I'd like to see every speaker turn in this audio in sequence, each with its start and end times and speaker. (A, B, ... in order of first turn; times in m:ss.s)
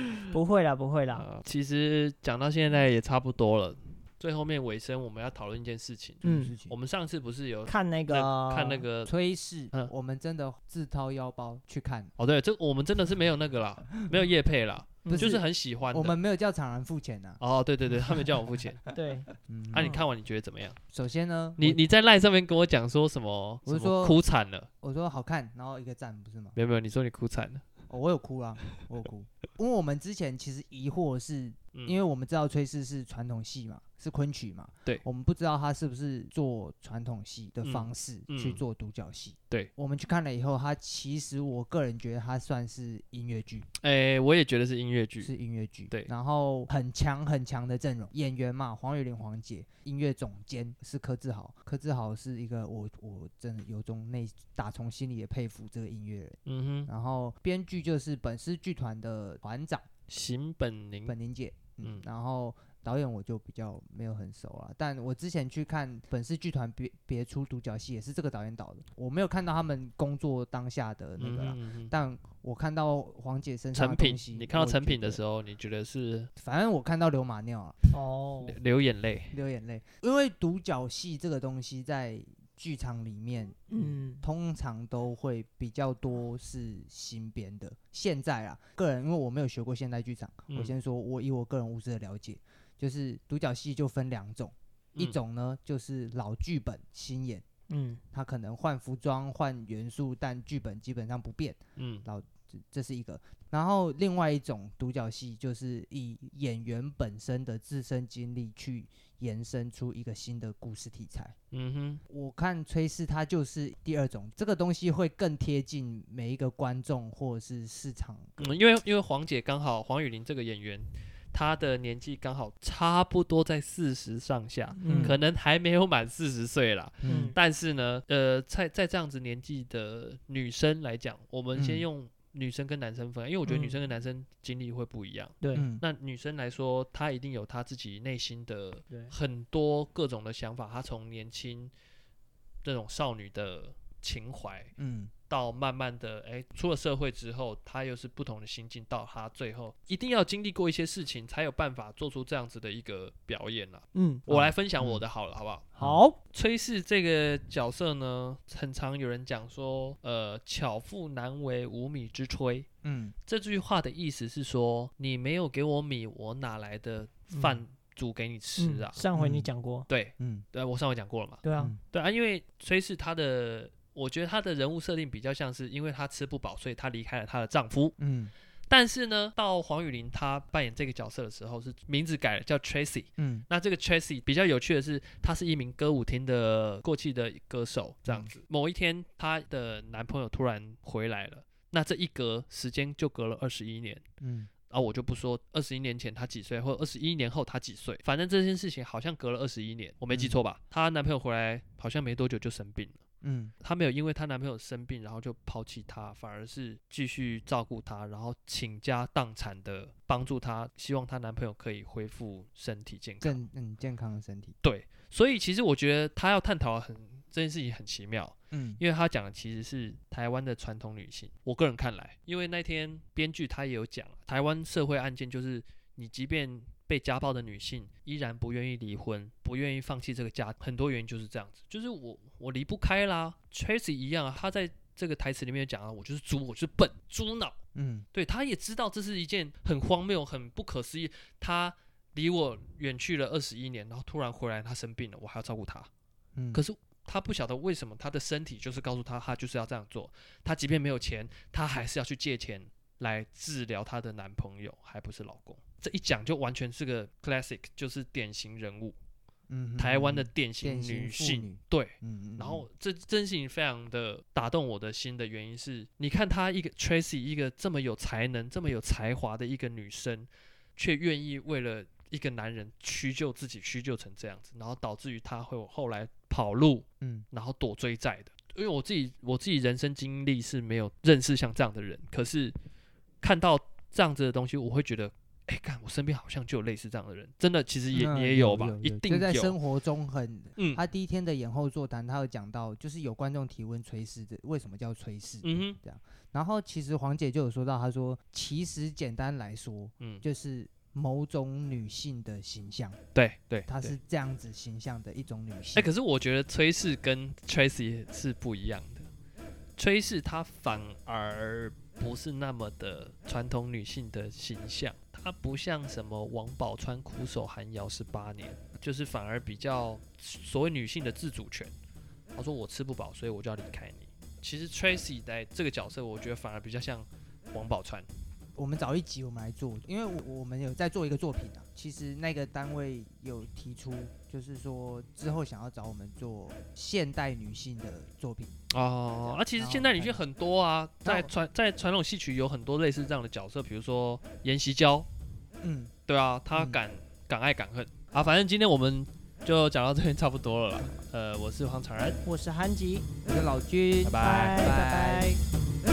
0:00.3-0:01.2 A
0:01.1-0:09.1 B
0:06.2-0:06.7 C
0:06.2-0:06.5 A
0:07.7-0:08.8 A
0:09.1-0:12.1 C
0:12.2-0:16.2 B
0:15.0-0:15.3 A
0:15.0-0:17.4 C
0:17.4-0:18.8 B
0:17.9-0:18.3 C
0:18.9-0:19.9 A
0:19.4-0:20.0 C
0:19.7-0:20.8 B
0:20.9-0:21.8 C
0:21.6-0:24.7 B
0:23.6-0:24.2 C
0:24.8-0:26.6 C
0:26.5-0:27.6 B
0:27.9-0:43.6 C
0:37.6-0:38.6 B
0:43.8-0:45.3 B
0:45.2-0:59.9 C
0:56.4-0:56.9 B
1:00.1-1:01.1 B
1:01.0-1:15.2 C
1:11.2-1:11.9 B
1:13.7-1:16.3 B
1:16.4-1:17.8 C
1:17.9-1:18.6 A
1:18.4-1:19.4 B
1:19.3-1:37.4 C
1:23.7-1:24.2 A
1:37.7-1:38.0 A
1:38.1-1:51.3 C
1:41.8-1:42.0 B
1:51.5-1:52.0 B
1:52.1-1:58.5 C
1:58.4-2:21.7 B
2:04.8-2:05.2 A
2:04.8-2:05.2 C
2:07.0-2:07.4 C
2:07.0-2:07.4 A
2:11.5-2:11.8 C
2:13.4-2:13.8 A
2:15.4-2:15.7 A
2:15.5-2:15.8 C
2:22.6-2:24.7 B
2:24.8-2:25.1 C
2:25.3-2:35.7 B
2:33.9-2:34.3 A
2:34.3-2:35.0 C
2:35.8-2:36.2 A
2:36.3-2:42.7 B
2:42.8-2:43.1 C
2:43.2-2:49.0 B
2:47.3-2:47.6 A
2:48.6-2:49.9 A
2:49.1-2:49.5 C
2:49.9-2:58.0 B
2:50.2-2:50.4 C
2:51.4-2:51.7 A
2:58.0-2:58.3 C
2:58.7-3:14.0 B
3:03.2-3:03.4 C
3:08.0-3:08.3 C
3:14.2-3:14.5 C
3:14.7-3:23.0 B
3:20.1-3:20.4 C
3:23.2-3:23.5 C
3:23.6-3:33.4 B
3:33.2-3:34.6 C
3:34.6-3:57.6 B
3:38.5-3:38.8 C
3:57.7-3:58.0 C
3:58.1-4:05.9 B
4:06.4-4:06.6 C
4:06.5-4:19.0 B
4:19.5-4:22.6 C
4:19.8-4:42.5 B
4:37.0-4:37.2 C
4:43.2-4:49.5 B
4:47.9-5:03.0 C
4:50.6-4:50.8 B
4:55.4-4:55.8 B
5:03.1-5:03.9 B
5:03.7-5:05.9 C
5:05.7-5:09.1 B
5:09.8-5:21.7 B
5:22.4-5:28.0 B
5:28.5-5:38.5 C
5:38.7-5:45.1 B
5:39.2-5:40.2 C
5:41.0-5:41.3 C
5:45.6-5:45.9 C
5:46.1-5:52.2 B
5:46.5-5:46.8 C
5:52.2-5:53.1 A
5:53.2-5:55.4 C
5:54.0-5:55.4 A
5:54.1-5:54.6 B